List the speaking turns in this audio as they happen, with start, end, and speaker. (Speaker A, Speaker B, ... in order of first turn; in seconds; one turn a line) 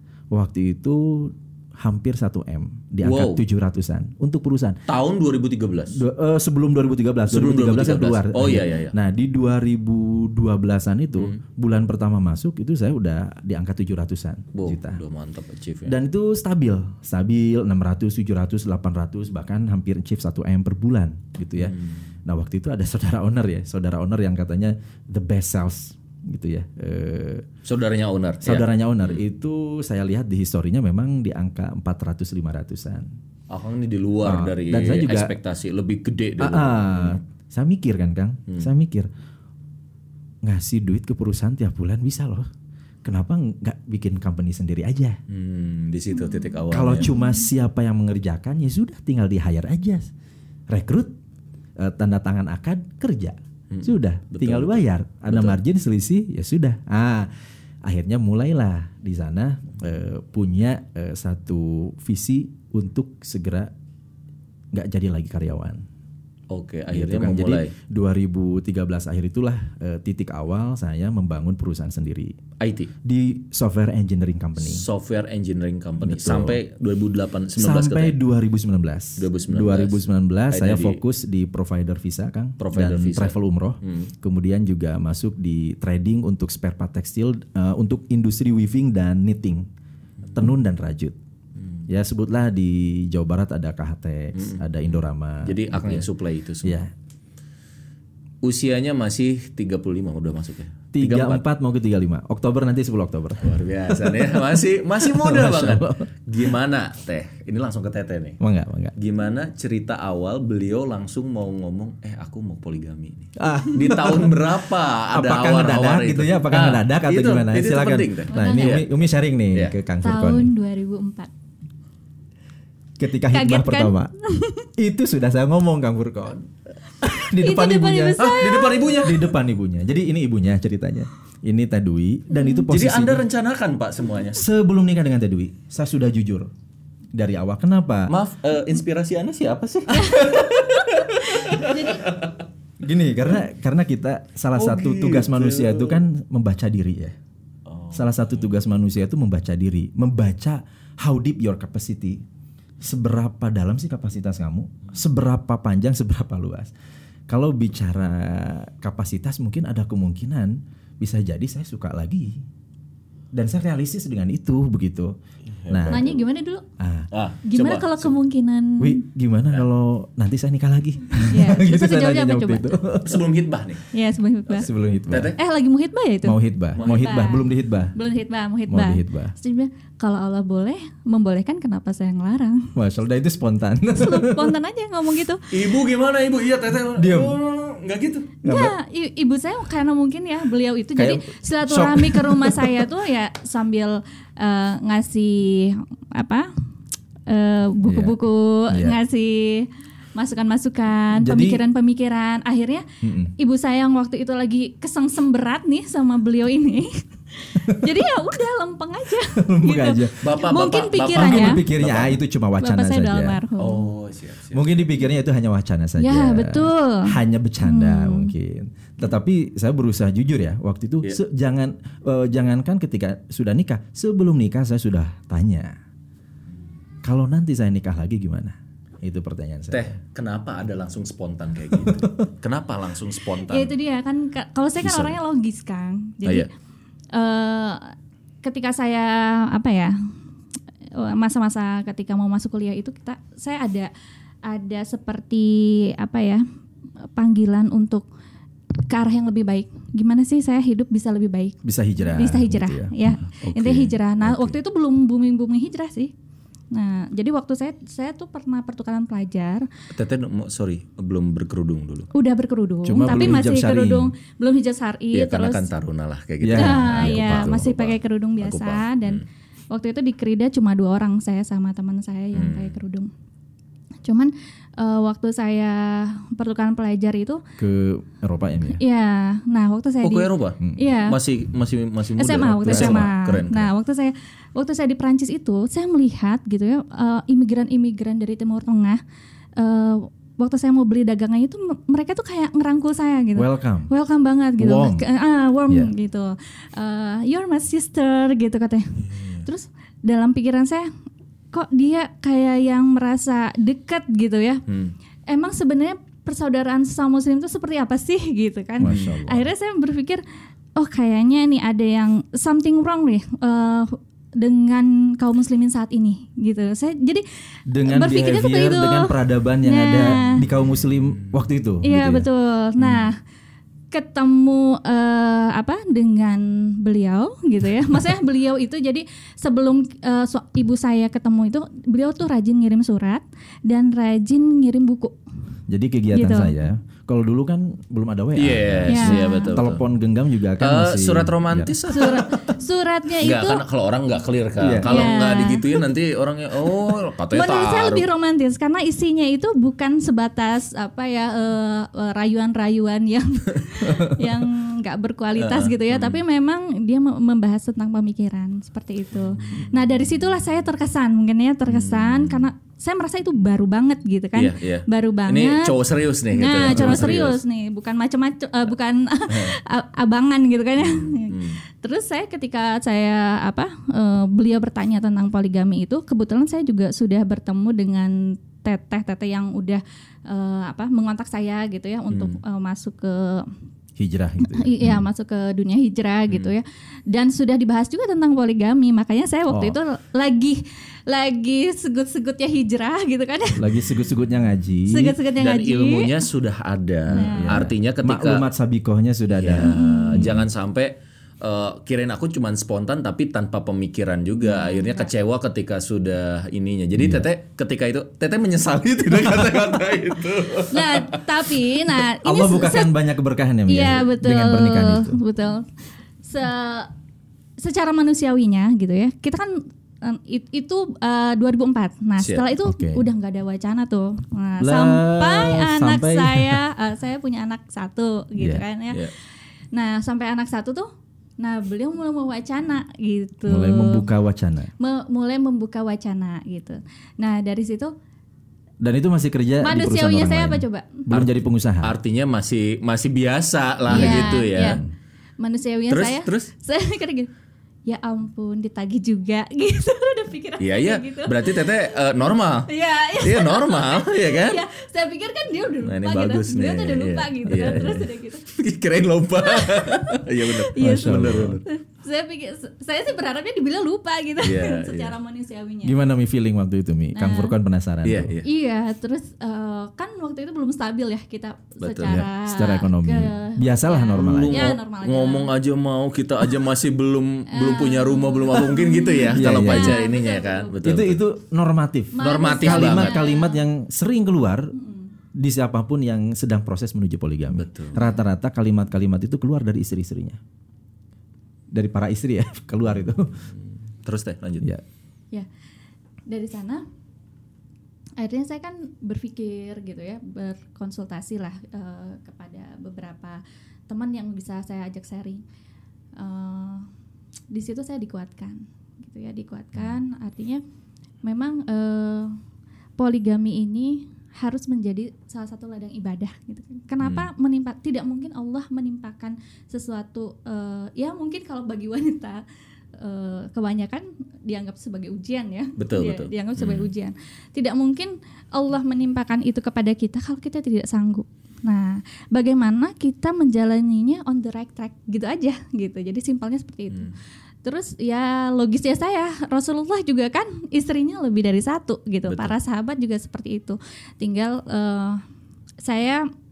Speaker A: 0.3-4.8
Speaker B: 3.0-3.4
Speaker B: 4.9-6.0
Speaker A: 5.9-15.0
Speaker B: 7.3-8.9
Speaker B: 14.5-15.9
Speaker A: 15.8-27.5
Speaker B: 21.6-21.9
Speaker B: 27.6-29.2
Speaker A: 28.4-33.1
Speaker B: 33.5-37.2
Speaker A: 34.2-35.3
Speaker A: 36.4-39.1
Speaker A: 40.4-42.5
Speaker A: 43.0-45.2
Speaker B: 45.3-47.1
Speaker C: 46.1-47.5
Speaker A: 46.7-50.1
Speaker A: 50.7-51.1
Speaker A: 51.8-57.3
Speaker B: 53.7-55.6
Speaker A: 57.8-63.7
Speaker A: 64.7-65.8
Speaker B: 66.5-67.7
Speaker A: 66.9-72.4
Speaker B: 72.6-72.9
Speaker A: 73.0-74.8
Speaker B: 74.6-78.2
Speaker A: 76.0-76.6
Speaker A: 77.5-89.7
Speaker B: 79.2-81.0
Speaker B: 82.6-84.1
Speaker A: 90.3-91.1
Speaker A: 91.9-96.1
Speaker B: 94.3-94.6
Speaker B: 95.4-96.8
Speaker A: 96.6-96.9
Speaker B: 98.4-101.4
Speaker A: 100.9-106.1
Speaker B: 103.4-108.4
Speaker A: 108.4-108.9
Speaker B: 109.0-118.9
Speaker A: 113.4-114.4
Speaker A: 115.1-120.5
Speaker C: 118.3-118.8
Speaker C: 120.0-121.3
Speaker A: 123.0-124.1
Speaker C: 123.3-124.7
Speaker A: 124.8-126.5
Speaker A: 127.0-133.2
Speaker C: 127.0-129.0
Speaker B: 128.2-129.2
Speaker C: 132.3-132.6
Speaker B: 132.7-134.4
Speaker A: 134.3-136.5
Speaker A: 137.1-138.1
Speaker B: 138.1-142.4
Speaker C: 140.0-140.8
Speaker C: 141.3-142.1
Speaker A: 142.8-147.2
Speaker B: 144.5-146.0
Speaker B: 147.7-148.5
Speaker A: 147.9-152.2
Speaker A: 152.8-156.7
Speaker A: 157.3-162.4
Speaker A: 163.3-165.1
Speaker B: 165.5-166.2
Speaker A: 165.7-166.0
Speaker C: 165.9-166.6
Speaker A: 166.8-167.1
Speaker B: 167.1-168.1
Speaker C: 167.5-169.0
Speaker A: 168.8-173.2
Speaker C: 171.3-172.8
Speaker B: 173.0-173.8
Speaker C: 173.9-174.7
Speaker A: 174.5-175.3
Speaker B: 175.1-175.4
Speaker C: 175.3-182.7
Speaker A: 176.2-177.9
Speaker B: 176.8-177.2
Speaker A: 178.7-179.3
Speaker A: 182.7-184.5
Speaker C: 183.9-185.5
Speaker B: 185.5-188.3
Speaker A: 186.9-187.4
Speaker A: 188.4-188.7
Speaker C: 188.4-196.5
Speaker A: 190.9-192.8
Speaker C: 197.3-202.8
Speaker A: 197.8-198.2
Speaker A: 198.7-199.0
Speaker A: 201.2-201.6
Speaker A: 203.0-203.3
Speaker C: 203.4-211.6
Speaker A: 209.4-210.2
Speaker B: 210.2-212.2
Speaker A: 211.1-213.4
Speaker C: 212.6-213.9
Speaker B: 213.6-214.8
Speaker A: 214.5-225.8
Speaker C: 216.0-218.3
Speaker A: 227.0-229.9
Speaker B: 229.7-233.7
Speaker A: 231.8-232.1
Speaker C: 233.4-236.5
Speaker B: 234.8-235.2
Speaker C: 237.1-239.9
Speaker C: 240.9-243.9
Speaker C: 244.4-246.4
Speaker C: 247.1-248.0
Speaker C: 248.9-256.1
Speaker A: 251.6-253.4
Speaker B: 253.5-253.9
Speaker A: 254.2-254.5
Speaker C: 256.7-259.7
Speaker B: 259.9-262.1
Speaker C: 262.1-265.7
Speaker A: 262.9-264.1
Speaker B: 265.1-269.2
Speaker A: 266.4-267.7
Speaker C: 266.5-273.1
Speaker B: 272.3-272.8
Speaker C: 274.0-277.4
Speaker A: 277.6-278.8
Speaker C: 278.7-281.2
Speaker B: 280.0-283.7
Speaker A: 280.6-280.9
Speaker C: 282.2-289.0
Speaker A: 282.6-283.1
Speaker C: 289.6-300.9
Speaker A: 293.3-293.9
Speaker A: 294.6-295.0
Speaker B: 299.0-299.4
Speaker C: 301.5-304.6
Speaker B: 304.7-304.9
Speaker C: 305.3-310.2
Speaker A: 308.8-309.5
Speaker C: 310.8-317.2
Speaker A: 317.7-322.3
Speaker C: 317.8-320.4
Speaker C: 321.8-323.2
Speaker A: 322.8-323.1
Speaker C: 323.9-335.2
Speaker A: 335.7-342.5
Speaker C: 336.1-336.5
Speaker B: 338.4-339.8
Speaker C: 338.9-339.6
Speaker B: 340.6-342.2
Speaker C: 341.9-343.6
Speaker B: 343.2-348.1
Speaker A: 344.6-345.0
Speaker C: 344.8-345.9
Speaker C: 347.3-383.5
Speaker A: 353.8-354.2
Speaker B: 355.3-356.2
Speaker B: 361.7-362.5
Speaker B: 364.3-367.4
Speaker A: 366.7-367.2
Speaker B: 369.3-369.6
Speaker B: 370.8-371.6
Speaker B: 382.1-382.4
Speaker A: 384.0-385.0
Speaker C: 384.4-393.8
Speaker A: 389.5-389.8
Speaker A: 393.6-395.2
Speaker C: 394.9-396.3
Speaker B: 395.4-398.4
Speaker A: 397.1-400.4
Speaker C: 397.1-397.6
Speaker B: 399.3-411.7
Speaker C: 399.6-400.4
Speaker C: 404.4-405.1
Speaker A: 407.0-407.2
Speaker C: 410.7-413.0
Speaker A: 412.2-415.2
Speaker C: 413.7-415.7
Speaker C: 416.2-416.9
Speaker C: 417.6-429.1
Speaker B: 422.2-422.4
Speaker A: 422.6-423.0
Speaker A: 424.6-426.6
Speaker A: 428.4-428.6
Speaker C: 429.7-430.9
Speaker C: 431.4-434.1
Speaker A: 433.4-434.7
Speaker C: 434.8-437.9
Speaker A: 438.8-441.9
Speaker C: 439.6-441.1
Speaker B: 441.1-444.8
Speaker C: 443.9-444.8
Speaker A: 443.9-444.9
Speaker C: 445.4-447.3
Speaker B: 445.9-446.5
Speaker C: 447.9-451.9
Speaker B: 450.6-454.6
Speaker C: 452.7-458.4
Speaker B: 455.8-461.6
Speaker C: 459.4-466.0
Speaker A: 460.8-461.6
Speaker B: 464.4-465.1
Speaker A: 465.8-468.3
Speaker C: 467.1-467.5
Speaker B: 468.0-468.5
Speaker C: 468.4-475.5
Speaker B: 471.8-472.2
Speaker A: 472.1-474.7
Speaker B: 474.2-481.2
Speaker C: 477.5-481.0
Speaker A: 479.3-480.0
Speaker A: 480.8-484.7
Speaker C: 482.1-483.6
Speaker B: 482.2-483.2
Speaker C: 484.7-485.1
Speaker A: 485.3-490.4
Speaker B: 487.5-488.0
Speaker A: 491.7-493.4
Speaker B: 494.0-494.7
Speaker C: 496.3-496.9
Speaker C: 498.2-505.4
Speaker C: 506.2-506.9
Speaker C: 507.5-510.6
Speaker C: 511.2-512.4
Speaker C: 513.0-522.4
Speaker B: 517.0-517.3
Speaker C: 523.0-545.2
Speaker B: 525.8-526.9
Speaker B: 542.3-542.5
Speaker C: 545.8-546.2